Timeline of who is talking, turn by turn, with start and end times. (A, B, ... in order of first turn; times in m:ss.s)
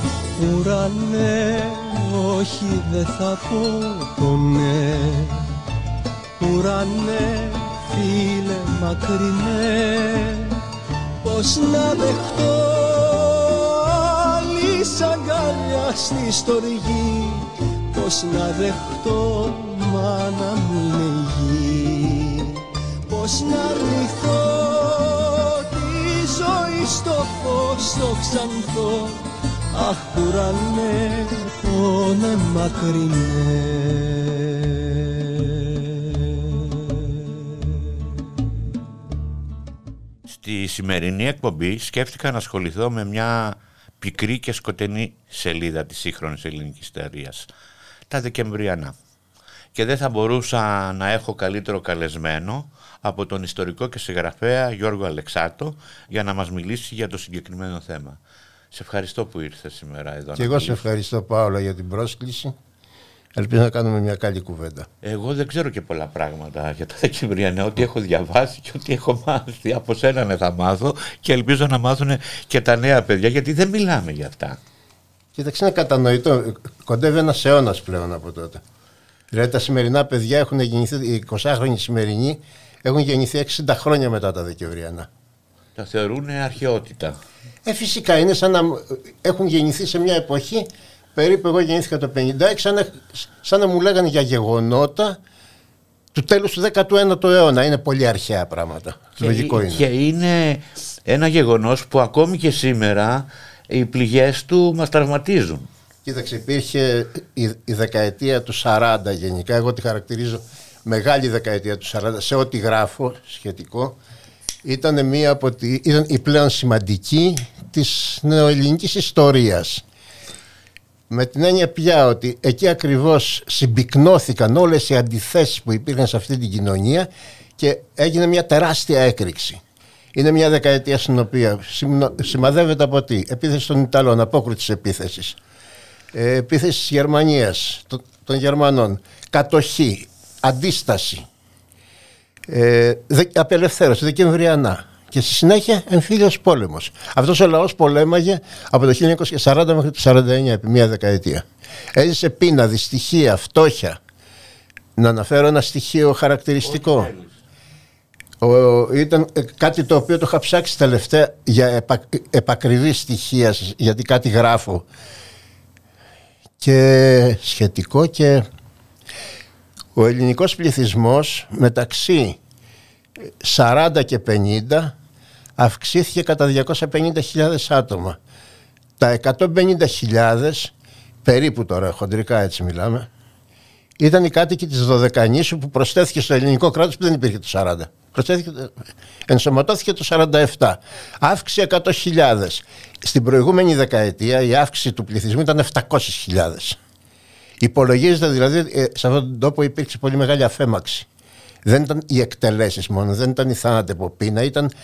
0:00.4-0:05.5 A
0:06.4-0:10.6 A
0:11.2-0:38.2 A
0:40.3-0:47.5 B
0:48.1-0:48.9 B
0:49.7-0:58.2 B
0:58.7-1:00.8 B
1:00.4-1:02.5 C
1:03.4-1:04.9 C
1:05.0-1:14.6 B
1:15.3-1:18.6 C
1:19.3-1:25.1 C
1:25.8-1:27.2 B
1:27.6-1:35.2 C
1:36.1-1:39.8 C
1:39.2-1:45.7 B
1:46.0-1:54.0 C
1:54.6-1:59.8 C
2:01.1-2:09.6 C
2:10.1-2:15.4 C
2:16.1-2:21.2 C
2:22.5-2:34.0 C
2:35.0-2:37.1 C
2:36.6-2:37.3 B
2:38.4-2:44.8 C
2:46.6-2:48.4 C
2:49.9-2:52.4 C
2:53.4-2:54.9 C
2:55.6-2:58.2 C
2:59.0-3:00.7 C
3:01.2-3:03.1 C
3:04.0-3:08.7 C
3:09.3-3:16.8 C
3:17.6-3:21.0 C
3:21.6-3:24.7 C